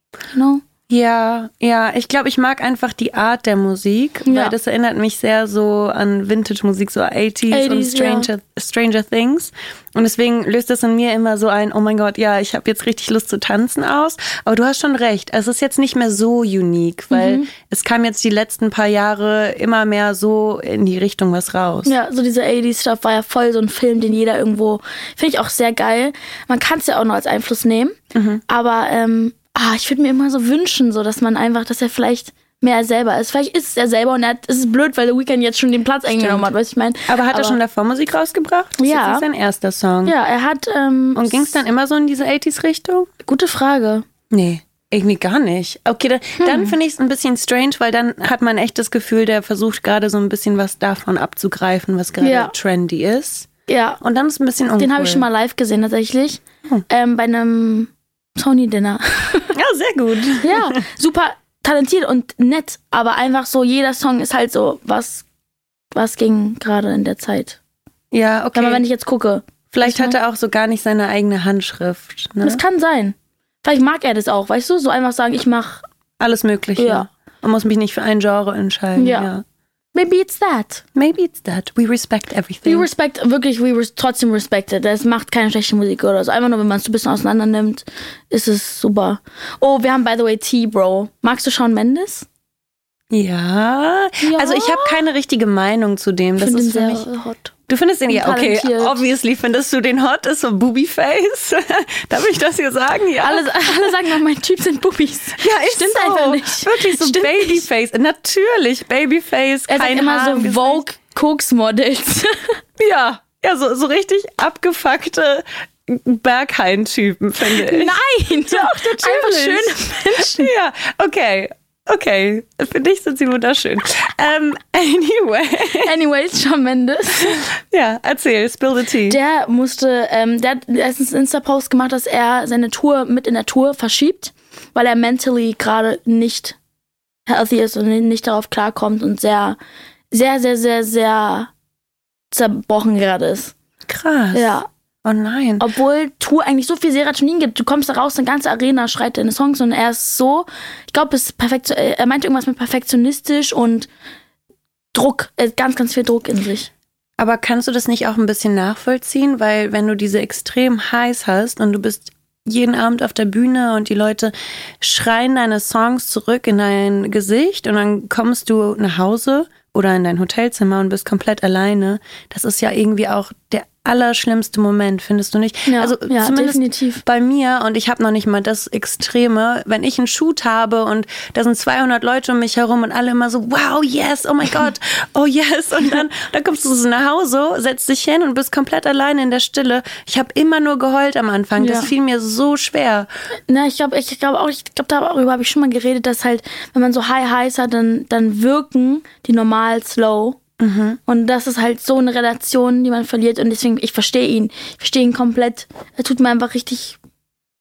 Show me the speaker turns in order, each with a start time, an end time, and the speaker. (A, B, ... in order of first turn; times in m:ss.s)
0:00.3-0:00.6 A
0:00.9-0:21.9 B
0:04.3-0:04.6 A
0:07.5-0:08.3 A
0:17.1-0:17.5 A
0:21.8-0:28.0 A
0:28.1-0:28.4 B
0:28.5-0:37.6 A
0:36.2-0:36.5 B
0:37.1-0:40.1 B
0:38.8-0:39.2 A
0:40.0-0:41.6 A
0:41.2-0:43.1 B
0:43.2-0:44.1 A
0:44.3-0:53.5 B
0:46.4-0:46.8 A
0:52.2-0:52.5 A
0:53.7-0:54.0 A
0:54.0-0:55.3 B
0:54.8-0:59.5 A
0:59.6-1:00.8 B
1:00.4-1:05.2 A
1:05.9-1:07.6 A
1:08.1-1:08.8 B
1:08.6-1:10.2 A
1:09.7-1:12.6 B
1:12.4-1:15.8 A
1:16.2-1:19.4 B
1:16.8-1:17.1 A
1:19.0-1:19.3 A
1:19.9-1:20.8 A
1:21.0-1:22.9 B
1:22.6-1:32.3 A
1:33.1-1:37.1 B
1:34.2-1:35.0 A
1:36.4-1:37.5 A
1:37.7-1:43.7 B
1:38.1-1:39.0 A
1:43.2-1:47.6 A
1:45.4-1:50.8 B
1:49.7-1:52.6 A
1:52.8-2:05.9 B
1:57.4-2:00.5 A
2:05.8-2:07.4 A
2:07.2-2:09.2 B
2:09.1-2:16.6 A
2:17.3-2:19.6 A
2:20.1-2:21.5 A
2:22.3-2:23.5 A
2:23.9-2:25.7 B
2:24.3-2:24.7 A
2:25.6-2:33.9 A
2:34.9-2:36.7 A
2:37.2-3:13.1 B
2:55.7-2:57.0 A
3:11.6-3:11.9 A
3:13.5-3:20.4 A
3:20.6-3:21.0 B
3:21.1-3:27.0 A